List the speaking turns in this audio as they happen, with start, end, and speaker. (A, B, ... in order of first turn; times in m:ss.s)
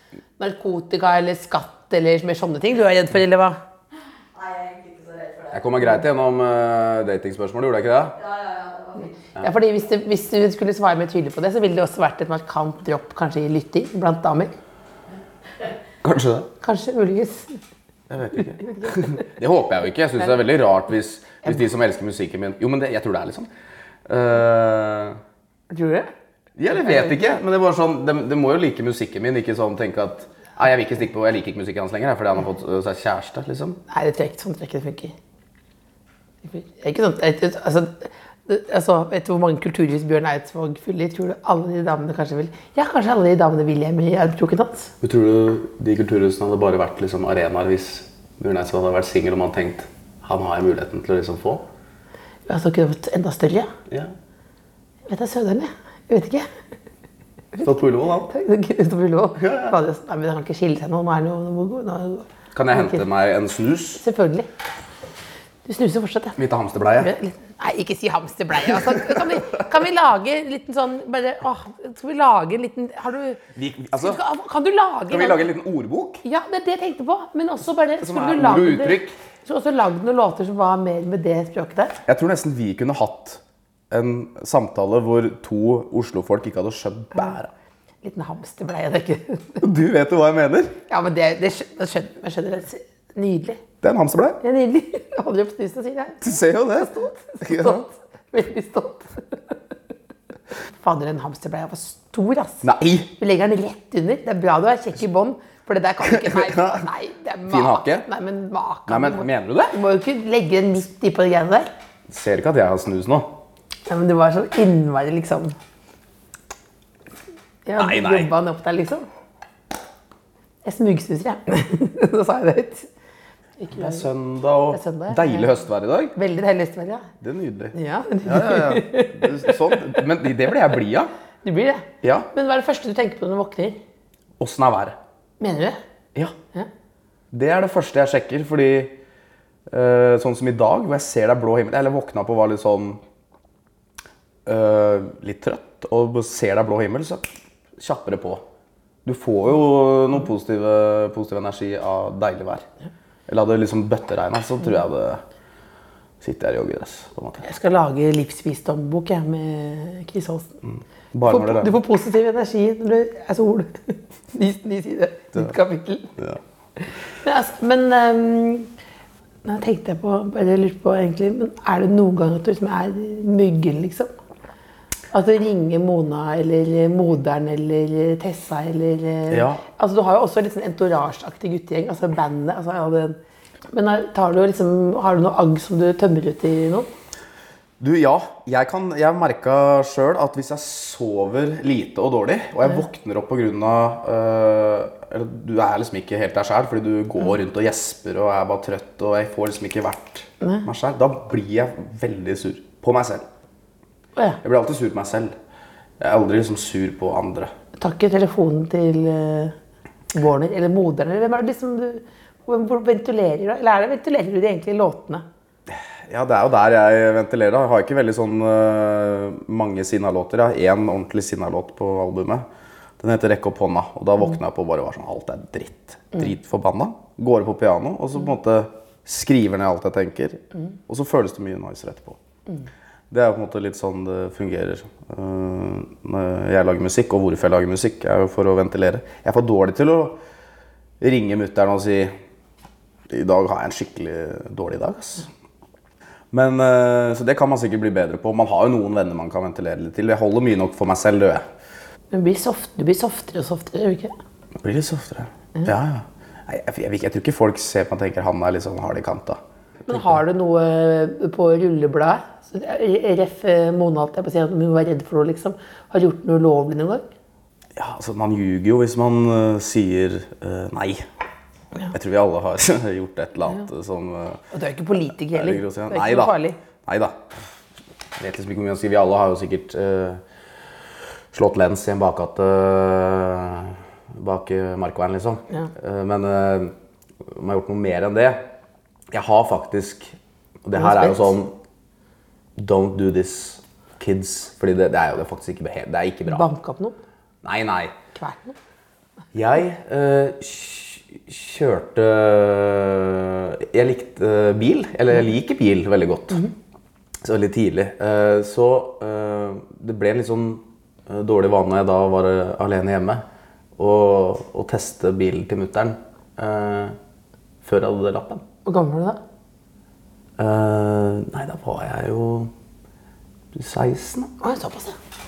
0:00.4-0:03.6 A
0:04.3-0:05.6 B
0:05.5-0:08.2 C
0:08.2-0:09.1 B
0:09.4-0:14.5 A
0:16.0-0:16.5 C
0:16.6-0:17.6 A
0:18.1-0:23.5 C
0:18.6-0:19.1 A
0:24.1-0:25.2 C
0:25.7-0:26.1 A
0:26.6-0:33.8 C
0:26.7-0:27.1 A
0:33.9-0:35.1 A
0:36.4-0:44.9 A
0:45.0-0:51.7 C
0:52.5-0:53.7 A
0:55.1-0:56.5 A
0:57.6-0:58.3 C
0:58.3-1:03.0 A
0:59.4-0:59.7 C
1:02.5-1:04.0 C
1:04.0-1:04.5 A
1:05.6-1:06.4 A
1:06.4-1:07.1 C
1:07.0-1:13.4 A
1:09.0-1:09.4 C
1:13.5-1:14.2 C
1:14.0-1:15.5 A
1:15.1-1:16.2 C
1:16.2-1:22.0 A
1:18.0-1:19.1 C
1:22.0-1:27.5 C
1:28.0-1:29.6 A
1:29.6-1:30.8 C
1:30.9-1:33.6 A
1:33.8-1:34.4 C
1:34.4-1:39.3 A
1:36.2-1:37.8 C
1:40.8-1:42.6 A
1:42.6-1:43.1 C
1:43.2-1:51.7 A
1:46.0-1:46.8 C
1:47.5-1:48.1 C
1:48.9-1:49.8 C
1:52.1-1:53.4 C
1:53.9-1:55.6 A
1:57.6-1:59.0 A
1:57.8-1:58.3 C
2:00.6-2:02.9 A
2:03.6-2:04.0 A
2:03.7-2:06.1 C
2:04.7-2:05.5 A
2:06.1-2:07.1 A
2:07.2-2:11.1 C
2:07.7-2:09.6 A
2:11.4-2:13.8 A
2:12.0-2:12.3 C
2:14.4-2:15.0 C
2:15.4-2:15.8 A
2:17.3-2:19.0 C
2:19.7-2:23.0 C
2:24.4-2:28.4 C
2:29.0-2:32.6 C
2:33.3-2:35.2 C
2:36.2-2:37.4 C
2:37.4-2:40.6 A
2:40.6-2:41.7 C
2:41.2-2:46.1 A
2:47.1-2:48.7 A
2:49.4-2:54.1 A
2:55.1-3:03.2 A
2:59.3-2:59.6 C
3:03.7-3:06.9 A
3:07.8-3:23.2 C
3:20.4-3:20.7 A
3:24.4-3:25.3 C
3:26.0-3:27.5 C
3:27.8-3:29.5 A
3:30.1-3:35.2 A
3:35.7-3:42.4 C
3:43.0-3:52.2 C
3:53.1-4:00.2 C
4:01.0-4:02.1 C
4:03.1-4:05.3 C
4:06.3-4:11.4 C
4:12.1-4:14.1 A
4:14.6-4:20.2 C
4:19.9-4:27.0 A
4:27.8-4:31.1 C
4:31.9-4:34.4 C
4:34.5-4:36.6 A
4:35.2-4:37.3 C
4:38.2-4:40.2 C
4:41.3-4:46.7 C
4:47.2-4:48.5 C
4:49.1-4:51.5 C
4:50.7-4:51.3 A
4:52.6-4:56.5 C
4:56.3-4:57.0 A
4:57.4-4:58.0 C
4:58.1-4:58.6 A
4:59.3-5:06.4 C
5:07.2-5:13.2 C
5:13.8-5:17.0 C
5:17.6-5:18.4 C
5:18.6-5:19.2 A
5:20.4-5:22.5 C
5:23.5-5:24.3 C
5:24.4-5:25.0 A